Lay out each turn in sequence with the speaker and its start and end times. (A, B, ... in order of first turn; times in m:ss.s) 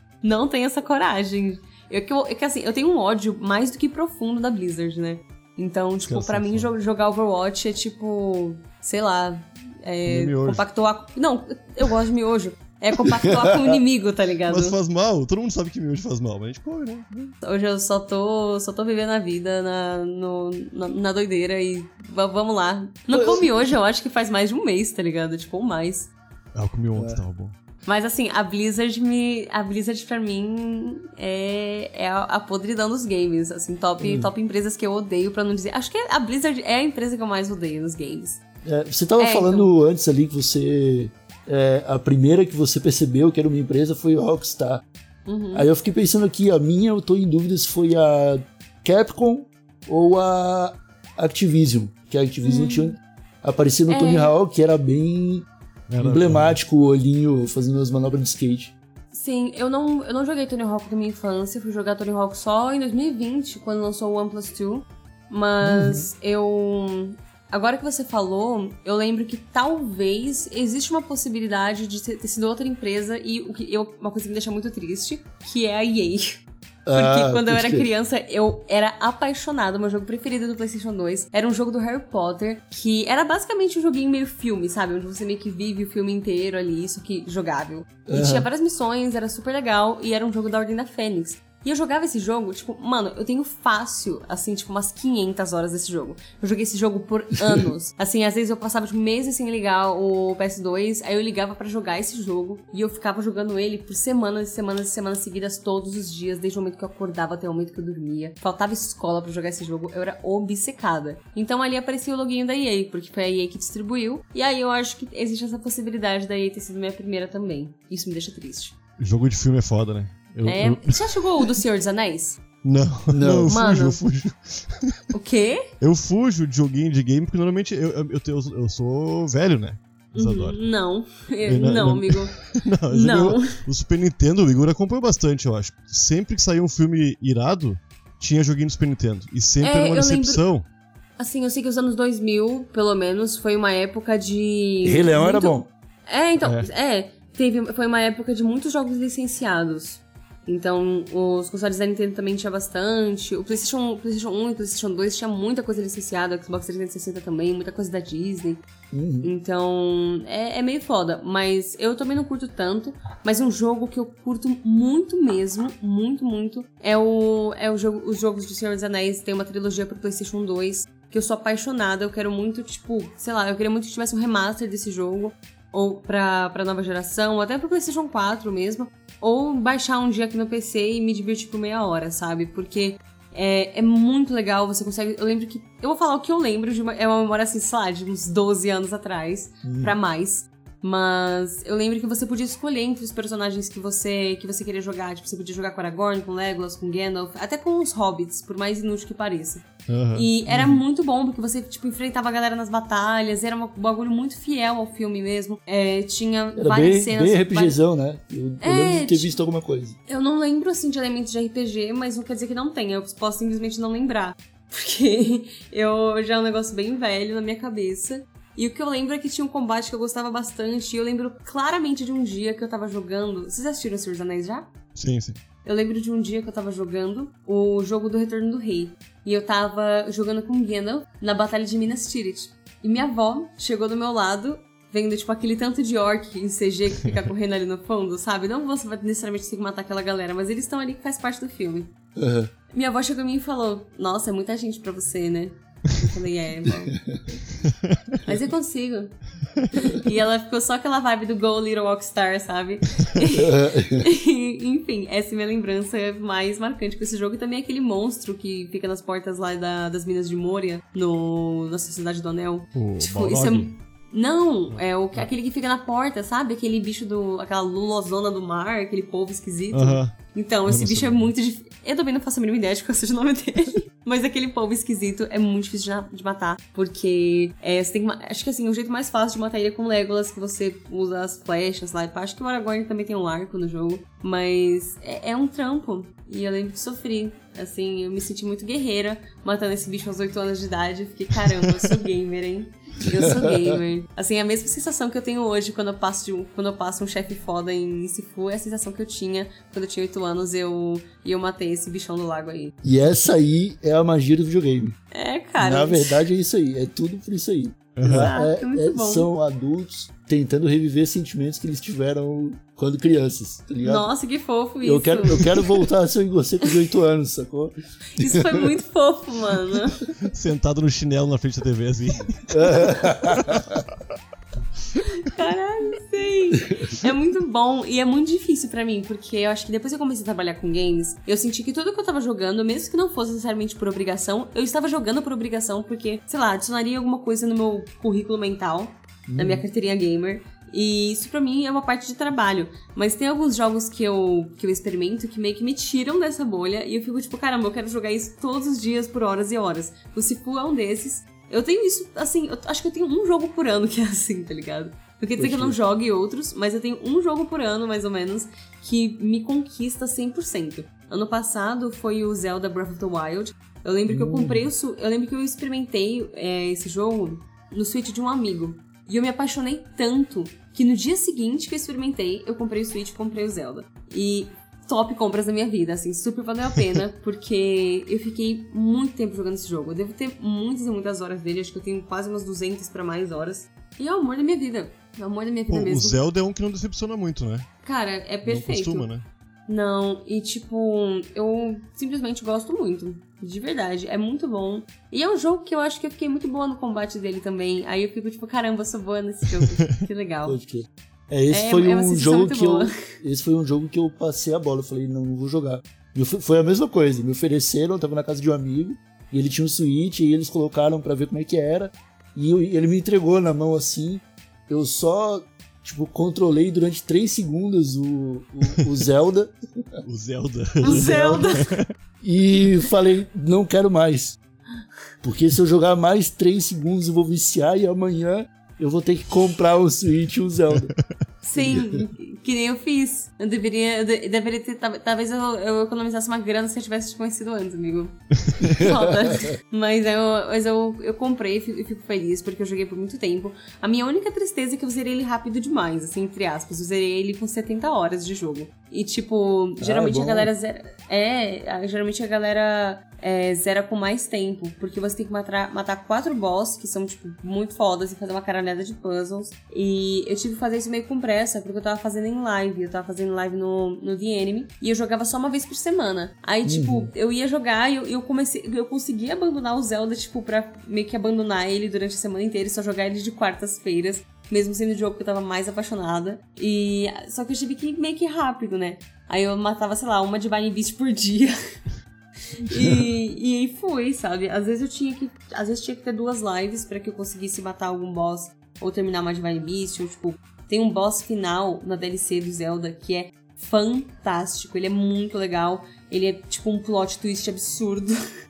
0:00.2-0:14.8 A
0:06.1-0:06.7 B
0:10.1-0:10.6 B
0:13.2-0:13.8 C
0:14.5-0:17.3 B
0:17.4-0:26.1 A
0:23.1-0:23.6 C
0:26.5-0:27.5 B
0:27.0-0:27.2 C
0:27.9-0:38.4 A
0:34.0-0:34.3 C
0:38.6-0:44.8 C
0:39.2-0:39.7 A
0:45.3-0:45.7 A
0:45.5-0:55.5 C
0:52.4-0:53.0 A
0:53.9-0:54.3 A
0:55.9-0:56.6 B
0:56.0-0:58.7 C
0:59.1-1:16.4 A
1:05.6-1:06.1 C
1:16.8-1:17.9 C
1:17.0-1:58.8 A
1:28.1-1:28.5 C
1:59.0-2:01.5 B
2:00.4-2:02.4 A
2:02.6-2:05.0 B
2:03.1-2:03.5 C
2:03.5-2:04.0 A
2:05.1-2:05.6 A
2:05.8-2:10.7 B
2:10.1-2:12.3 A
2:11.5-2:20.7 B
2:12.9-2:13.5 A
2:19.6-2:20.4 A
2:21.2-2:25.6 A
2:24.8-2:25.7 C
2:26.1-2:38.6 A
2:26.4-2:26.7 B
2:38.9-2:39.3 C
2:39.2-3:27.8 A
3:09.6-3:10.0 C
3:19.9-3:20.3 B
3:20.5-3:20.8 C
3:26.6-3:30.0 C
3:28.6-3:29.4 A
3:30.1-3:44.7 A
3:45.0-3:45.4 B
3:45.6-4:01.9 A
4:02.2-4:02.5 C
4:02.7-4:07.0 A
4:07.0-4:07.4 C
4:08.2-4:09.2 A
4:09.7-5:02.7 A
4:13.3-4:14.1 C
4:22.8-4:23.7 B
4:24.7-4:25.3 B
4:29.7-4:31.3 B
4:53.2-4:53.8 C
5:02.8-5:05.0 C
5:05.1-5:06.2 A
5:05.6-5:14.1 C
5:08.0-5:08.3 B
5:08.1-5:09.3 A
5:13.8-5:15.5 A
5:14.8-5:18.7 C
5:18.1-5:20.0 A
5:20.2-5:22.6 B
5:22.5-5:23.8 C
5:25.2-6:26.2 A
5:39.3-5:39.6 C
5:55.4-5:55.8 C
6:04.1-6:04.7 C
6:25.7-6:27.7 B
6:27.8-6:29.1 A
6:28.4-6:29.3 B
6:29.7-6:40.6 A
6:40.4-6:59.5 C
6:41.5-6:42.9 A
7:00.0-7:01.9 B
7:00.8-7:01.6 A
7:00.8-7:01.6 C
7:02.2-7:04.4 C
7:05.2-7:10.9 C
7:11.4-8:01.6 A
7:11.6-7:12.0 C
7:18.6-7:19.5 C
7:29.8-7:30.5 C
7:46.6-7:47.1 C
8:02.6-8:18.2 A